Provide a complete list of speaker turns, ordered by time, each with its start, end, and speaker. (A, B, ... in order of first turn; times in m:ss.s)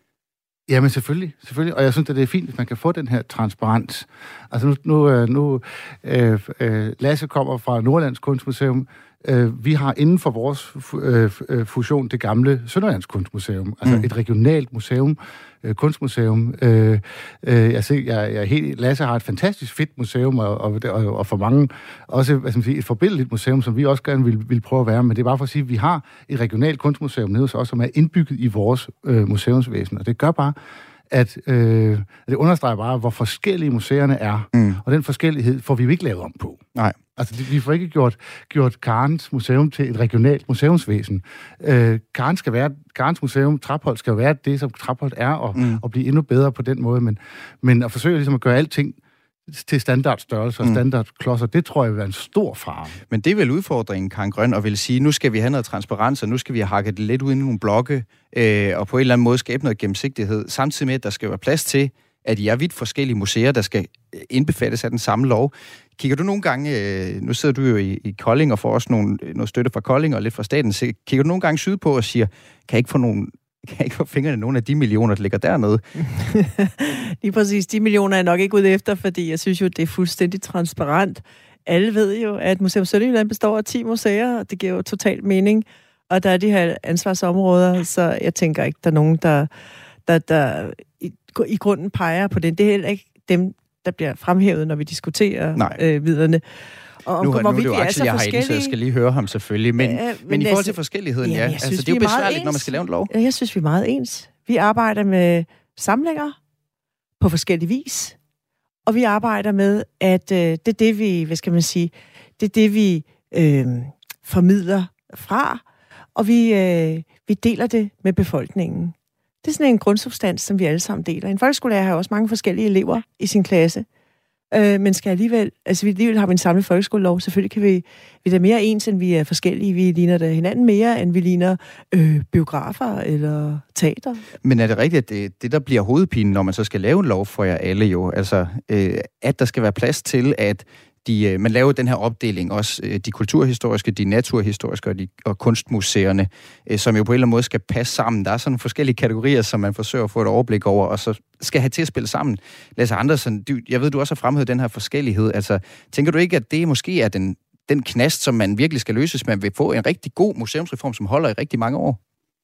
0:00.7-0:30.5 A
0:31.1-0:36.6 A
0:34.5-0:34.8 B
0:37.2-0:53.0 A
0:45.5-0:45.8 B
0:53.1-1:15.8 B
1:16.1-1:29.5 C
1:30.0-1:36.4 C
1:37.0-1:38.7 C
1:37.2-1:43.1 B
1:39.8-1:46.4 C
1:47.2-1:48.2 C
1:48.8-1:55.6 C
1:56.1-2:03.8 C
2:04.5-2:14.2 C
2:14.4-2:42.0 B